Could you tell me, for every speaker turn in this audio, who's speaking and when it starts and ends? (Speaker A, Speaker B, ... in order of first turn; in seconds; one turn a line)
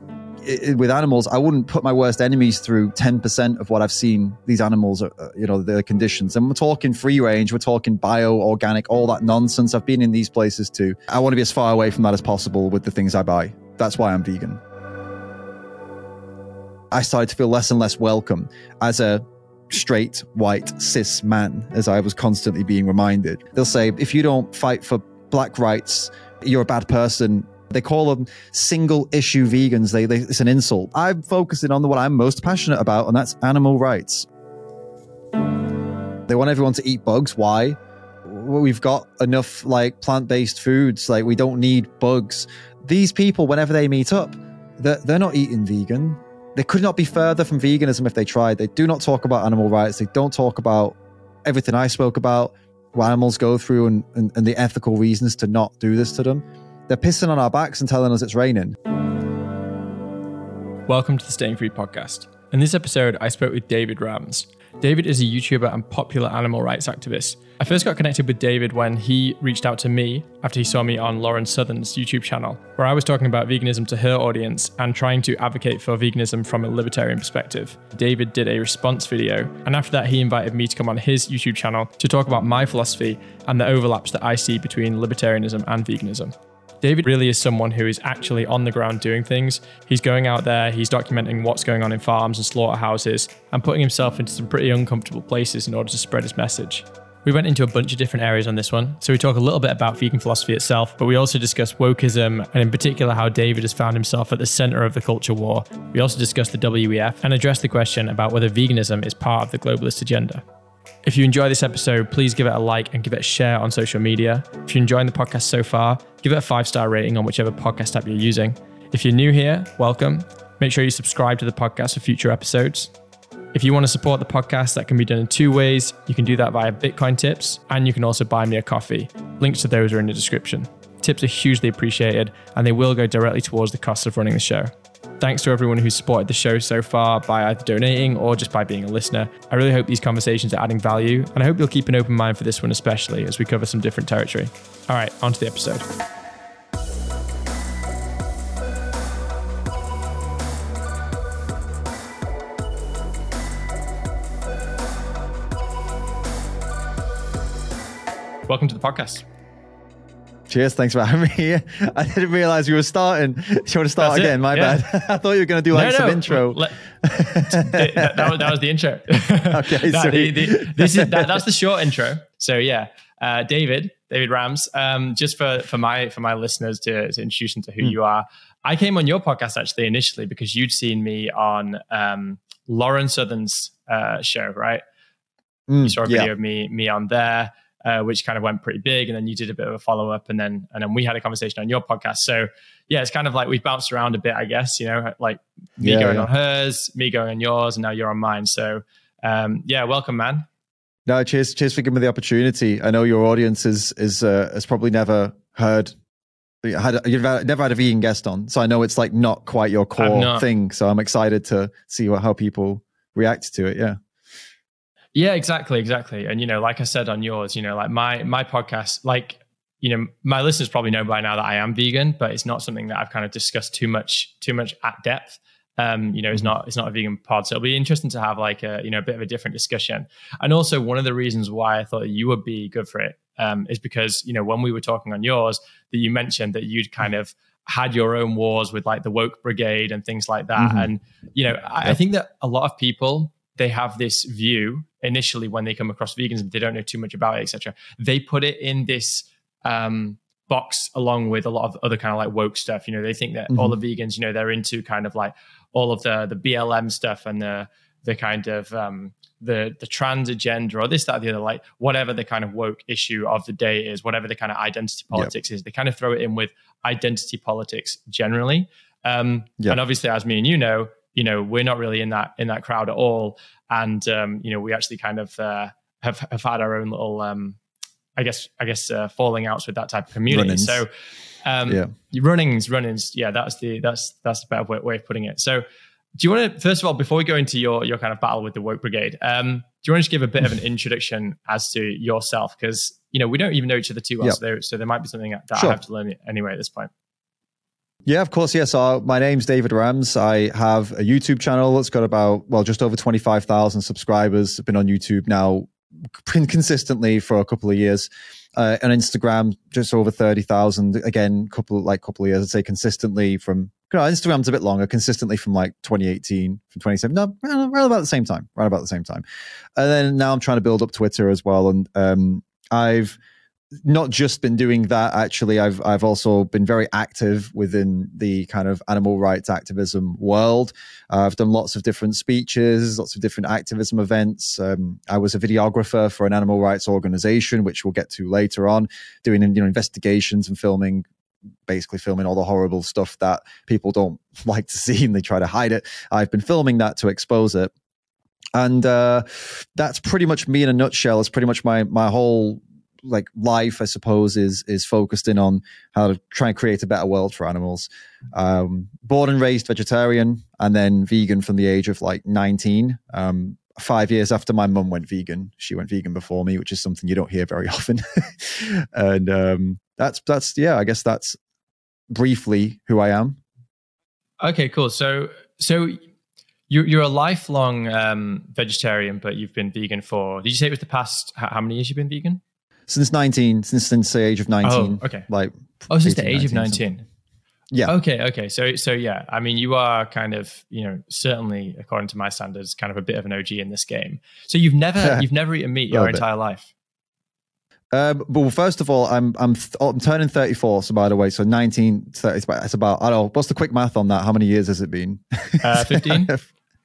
Speaker A: 0.4-14.6
Speaker A: 16.9-34.3
Speaker A: 36.3-58.8
Speaker B: 60.9-110.4
Speaker B: 111.0-122.9
Speaker B: 123.5-145.8
Speaker B: 158.5-159.2
Speaker A: 160.5-168.5
Speaker B: 164.0-164.8
Speaker B: 165.7-166.8
Speaker B: 167.4-184.8
Speaker A: 169.5-171.4
Speaker A: 185.7-186.3
Speaker B: 185.8-200.4
Speaker A: 195.8-196.3
Speaker A: 201.1-205.9
Speaker A: 206.6-214.0
Speaker B: 209.9-210.5
Speaker B: 215.1-277.6
Speaker A: 240.6-240.9
Speaker A: 253.5-253.8
Speaker B: 278.2-280.9
Speaker A: 280.3-280.8
Speaker B: 281.4-285.6
Speaker A: 281.7-281.9
Speaker B: 286.2-296.9
Speaker A: 298.1-319.2
Speaker A: 319.8-323.2
Speaker A: 323.8-341.1
Speaker A: 341.7-347.7
Speaker A: 348.5-371.4
Speaker A: 372.1-373.4
Speaker B: 374.4-376.0
Speaker B: 376.7-382.4
Speaker A: 382.9-386.8
Speaker B: 384.6-385.3
Speaker B: 385.9-387.0
Speaker B: 387.9-396.7
Speaker A: 395.9-396.2
Speaker A: 397.9-406.4
Speaker B: 405.6-406.3